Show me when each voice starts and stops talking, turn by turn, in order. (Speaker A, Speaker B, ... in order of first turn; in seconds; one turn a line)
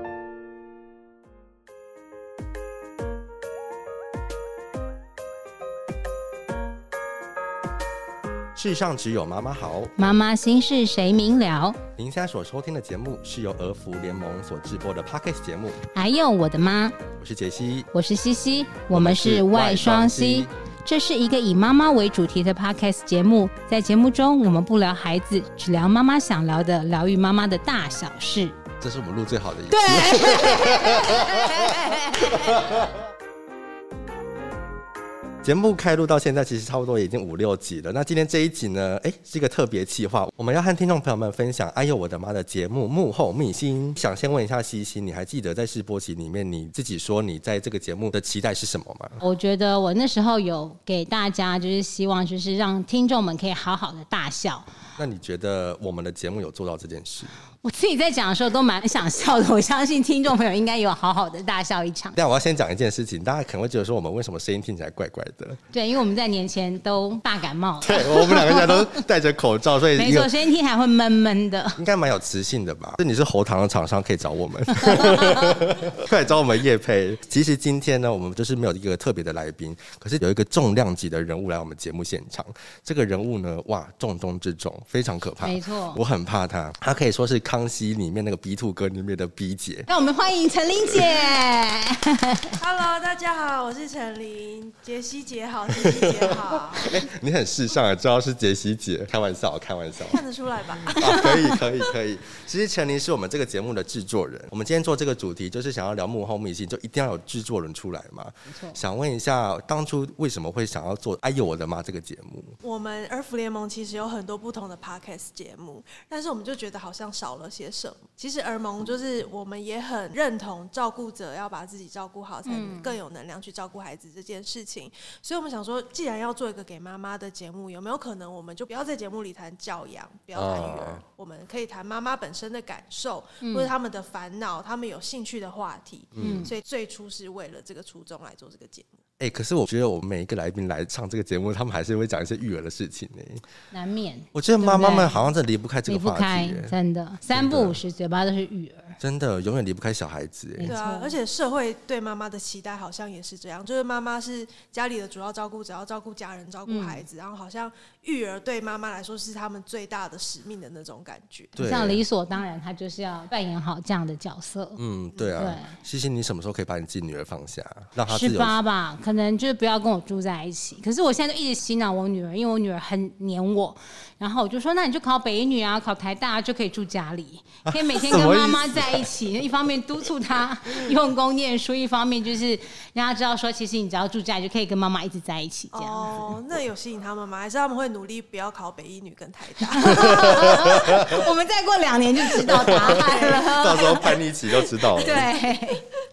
Speaker A: 8.5-9.9
Speaker B: 10.0-11.8
Speaker A: 12.0-15.8
Speaker B: 15.9-16.9
Speaker A: 17.2-17.9
Speaker B: 17.9-28.6
Speaker A: 18.9-20.5
Speaker A: 28.8-32.9
Speaker B: 29.7-32.6
Speaker A: 35.4-49.2
Speaker B: 49.2-54.7
Speaker A: 55.0-57.4
Speaker B: 57.6-62.2
Speaker A: 62.1-65.6
Speaker B: 65.7-69.0
Speaker A: 67.8-70.3
Speaker B: 69.9-71.8
Speaker A: 71.8-89.9
Speaker B: 74.9-75.6
Speaker B: 85.4-86.0
Speaker B: 89.9-92.5
Speaker C: 92.6-97.0
Speaker A: 95.8-96.1
Speaker A: 96.8-100.2
Speaker C: 100.0-101.5
Speaker A: 101.0-112.5
Speaker B: 108.5-108.8
Speaker C: 112.6-139.0
Speaker B: 122.4-123.0
Speaker A: 130.3-131.0
Speaker B: 133.4-133.7
Speaker A: 136.2-136.5
Speaker B: 136.2-136.5
Speaker A: 139.2-143.4
Speaker B: 143.7-145.2
Speaker A: 144.3-146.8
Speaker B: 145.8-149.0
Speaker A: 147.3-147.8
Speaker A: 149.0-150.8
Speaker B: 150.6-151.2
Speaker C: 150.6-161.6
Speaker B: 156.7-157.0
Speaker A: 161.5-162.0
Speaker B: 161.6-164.8
Speaker A: 164.8-168.6
Speaker C: 165.1-165.4
Speaker B: 165.4-165.8
Speaker B: 168.1-186.2
Speaker A: 177.7-179.1
Speaker C: 185.7-190.4
Speaker B: 189.7-194.1
Speaker A: 190.1-191.2
Speaker A: 192.4-195.3
Speaker C: 192.7-193.5
Speaker B: 194.9-195.8
Speaker C: 195.0-195.3